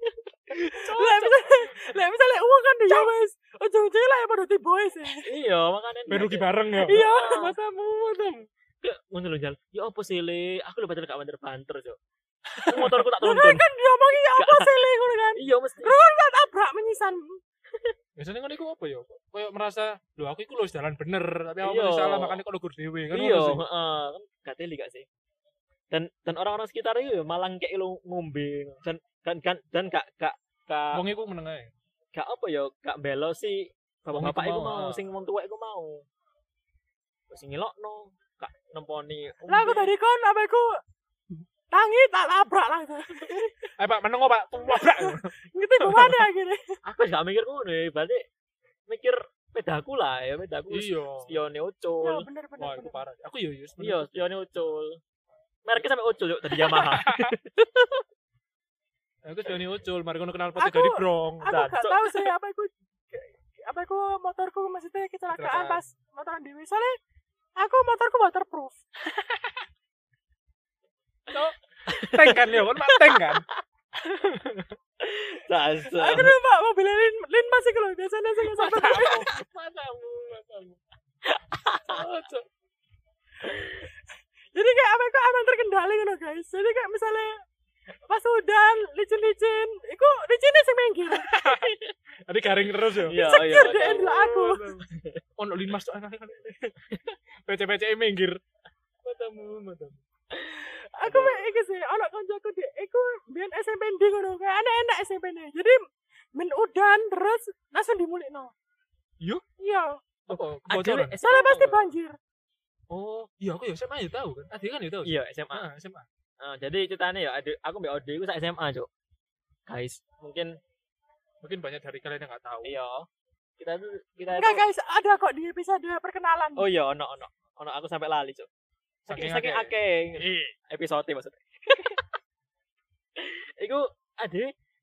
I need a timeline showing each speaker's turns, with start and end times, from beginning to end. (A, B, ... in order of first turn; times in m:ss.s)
0:00.8-0:01.5 A
0:00.8-0:05.3 B
0:05.2-0:07.6 A
0:06.1-0:08.4 C
0:06.8-0:07.6 B
0:08.8-0:12.0 A
0:12.5-0:13.1 C
0:12.6-0:13.7 A
0:13.2-0:17.4 B
0:14.4-0:16.0 A
0:18.2-0:23.6 C
0:21.6-0:22.4 A
0:23.1-0:25.1 A
0:25.9-0:31.0 A
0:30.9-0:31.7 C
0:32.1-0:36.1 A
0:34.2-0:35.0 C
0:37.3-0:39.9 A
0:39.5-0:40.8 B
0:41.7-0:43.7 B
0:43.8-0:46.3 C
0:44.6-0:46.8 B
0:46.8-0:48.2 A
0:48.9-0:52.3 A
0:50.7-0:51.4 C
0:52.0-0:53.0 B
0:52.6-0:54.2 C
0:53.8-0:55.0 A
0:55.7-0:58.0 A
0:56.6-0:57.3 C
0:59.2-1:01.6 C
1:00.6-1:07.0 B
1:01.5-1:02.3 A
1:05.3-1:05.8 C
1:07.6-1:08.8 B
1:11.3-1:13.5 C
1:11.4-1:13.4 A
1:14.0-1:14.8 C
1:15.0-1:16.4 A
1:15.9-1:19.3 B
1:18.4-1:20.8 C
1:21.2-1:22.0 A
1:21.8-1:22.5 C
1:23.4-1:23.7 A
1:24.5-1:27.4 B
1:28.1-1:31.4 B
1:31.3-1:34.8 C
1:31.4-1:31.9 A
1:33.0-1:35.2 A
1:33.1-1:34.7 B
1:35.4-1:36.7 C
1:36.9-1:37.2 A
1:37.5-1:38.4 C
1:39.0-1:41.6 A
1:40.9-1:45.8 B
1:46.4-1:48.5 B
1:49.6-1:50.0 B
1:50.3-1:51.2 C
1:50.3-1:51.9 A
1:51.2-1:52.2 B
1:52.9-1:56.1 C
1:55.0-1:55.7 A
1:56.4-1:58.9 A
1:59.7-2:00.6 A
2:01.4-2:02.8 C
2:02.6-2:03.1 A
2:03.6-2:04.6 A
2:04.3-2:06.7 B
2:06.6-2:08.5 A
2:09.1-2:10.5 C
2:09.1-2:12.0 A
2:13.2-2:14.5 A